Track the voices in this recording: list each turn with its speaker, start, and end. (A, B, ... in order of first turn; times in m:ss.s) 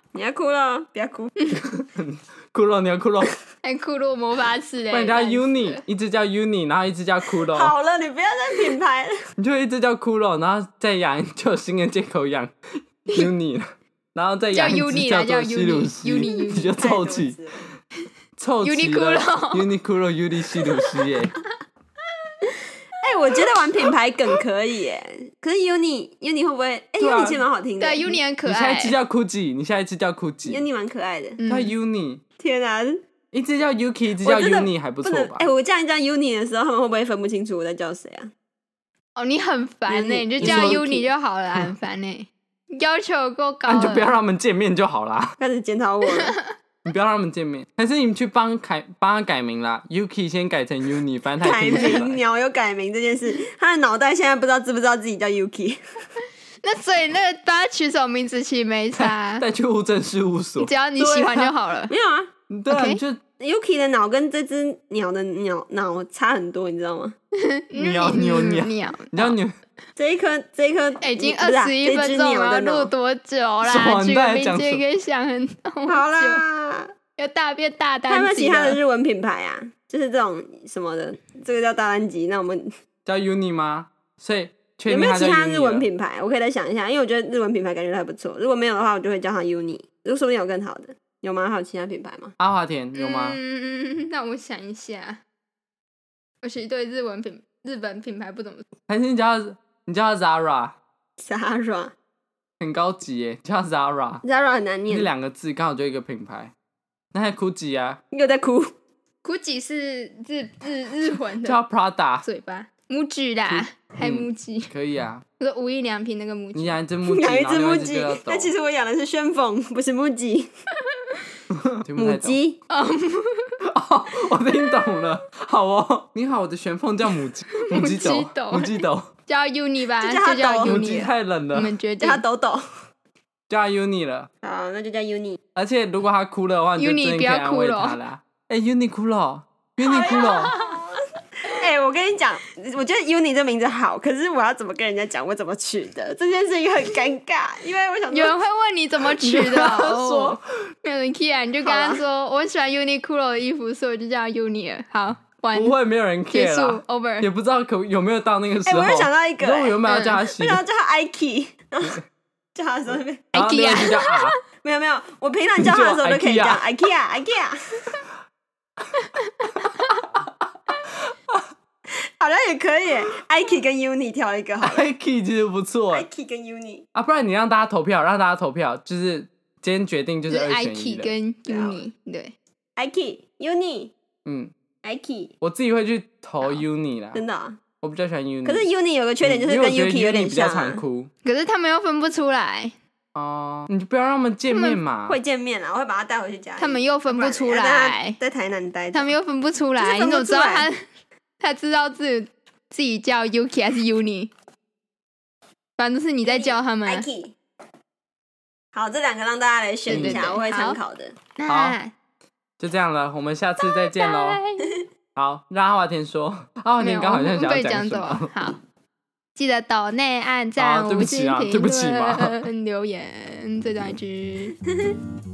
0:00.1-0:01.3 A
0:01.7-0:03.4 B
0:03.6-0:05.8 C
0:04.9-0:07.7 B
0:07.5-0:09.1 A
0:09.4-0:17.4 B
0:14.5-0:16.8 C
0:16.8-0:17.6 A
0:18.4-0:21.4 B
0:18.6-0:19.6 C
0:23.0-0:28.2 A
0:27.0-0:27.4 B
0:27.8-0:29.0 C
0:28.4-0:30.6 B
0:30.4-0:31.4 A
0:31.4-0:31.7 C
0:31.4-0:32.2 B
0:32.4-0:33.0 A
0:33.3-0:35.5 B
0:34.2-0:38.3 A
0:39.2-0:44.2 C
0:39.9-0:41.1 A
0:40.4-0:40.8 B
0:43.7-0:45.4 B
0:45.4-0:46.4 A
0:46.8-0:52.2 B
0:51.4-0:55.8 A
0:56.6-0:59.4 C
0:59.0-1:01.5 B
1:00.6-1:01.9 C
1:01.9-1:02.3 A
1:02.5-1:03.2 B
1:02.7-1:03.0 C
1:03.4-1:07.1 A
1:07.4-1:09.4 C
1:07.7-1:09.6 B
1:10.0-1:12.9 A
1:11.0-1:16.4 C
1:13.6-1:14.8 B
1:15.9-1:16.9 A
1:17.2-1:18.8 C
1:18.1-1:22.7 A
1:23.0-1:25.9 B
1:24.9-1:32.3 A
1:32.4-1:33.4 B
1:32.9-1:35.2 C
1:36.4-1:38.6 C
1:38.9-1:40.7 B
1:41.2-1:41.9 A
1:42.6-1:44.2 B
1:44.2-1:45.1 A
1:44.9-1:46.5 B
1:47.1-1:48.0 B
1:48.1-1:48.7 A
1:49.2-1:51.6 C
1:51.4-1:52.2 B
1:52.2-1:54.7 C
1:53.5-1:55.2 B
1:55.4-1:56.8 C
1:56.5-1:58.5 B
1:57.1-2:00.5 A
2:01.7-2:02.4 B
2:02.0-2:02.6 A
2:02.7-2:03.6 C
2:03.7-2:09.1 B
2:07.6-2:12.2 C
2:10.0-2:11.1 A
2:10.6-2:11.7 B
2:12.0-2:12.6 A
2:13.5-2:14.3 B
2:14.4-2:15.4 A
2:15.5-2:20.5 B
2:16.8-2:18.0 C
2:19.8-2:20.8 A
2:20.1-2:20.6 C
2:21.5-2:28.4 A
2:28.1-2:35.8 C
2:29.2-2:30.4 B
2:31.6-2:32.0 A
2:35.5-2:40.6 B
2:36.3-2:37.3 C
2:38.6-2:42.0 A
2:39.9-2:40.2 C
2:42.5-2:43.3 A
2:43.3-2:44.3 C
2:43.3-2:44.3 B
2:44.6-2:47.6 A
2:45.6-2:46.6 B
2:49.4-2:50.0 C
2:51.1-2:51.4 B
2:51.9-2:54.8 A
2:54.6-2:56.0 B
2:55.9-2:56.8 A
2:56.9-3:01.1 B
3:00.3-3:02.3 C
3:01.5-3:01.8 A
3:02.8-3:03.9 A
3:04.2-3:04.5 B
3:04.8-3:05.3 A
3:05.4-3:07.2 B
3:07.1-3:07.6 A
3:07.8-3:08.6 B
3:08.4-3:10.8 A
3:09.2-3:11.1 B
3:11.2-3:12.7 C
3:13.1-3:15.2 B
3:14.5-3:14.8 C
3:15.1-3:19.1 A
3:16.6-3:18.2 C
3:18.9-3:20.8 C
3:19.8-3:20.7 A
3:21.4-3:24.3 C
3:25.8-3:27.0 C
3:26.2-3:27.4 A
3:28.7-3:31.2 A
3:29.9-3:30.8 C
3:29.9-3:30.3 B
3:31.4-3:31.9 C
3:31.5-3:31.8 B
3:32.6-3:34.4 B
3:33.6-3:34.7 C
3:35.2-3:38.3 B
3:36.8-3:38.6 C
3:39.3-3:44.5 C
3:40.6-3:42.4 B
3:44.7-3:45.0 A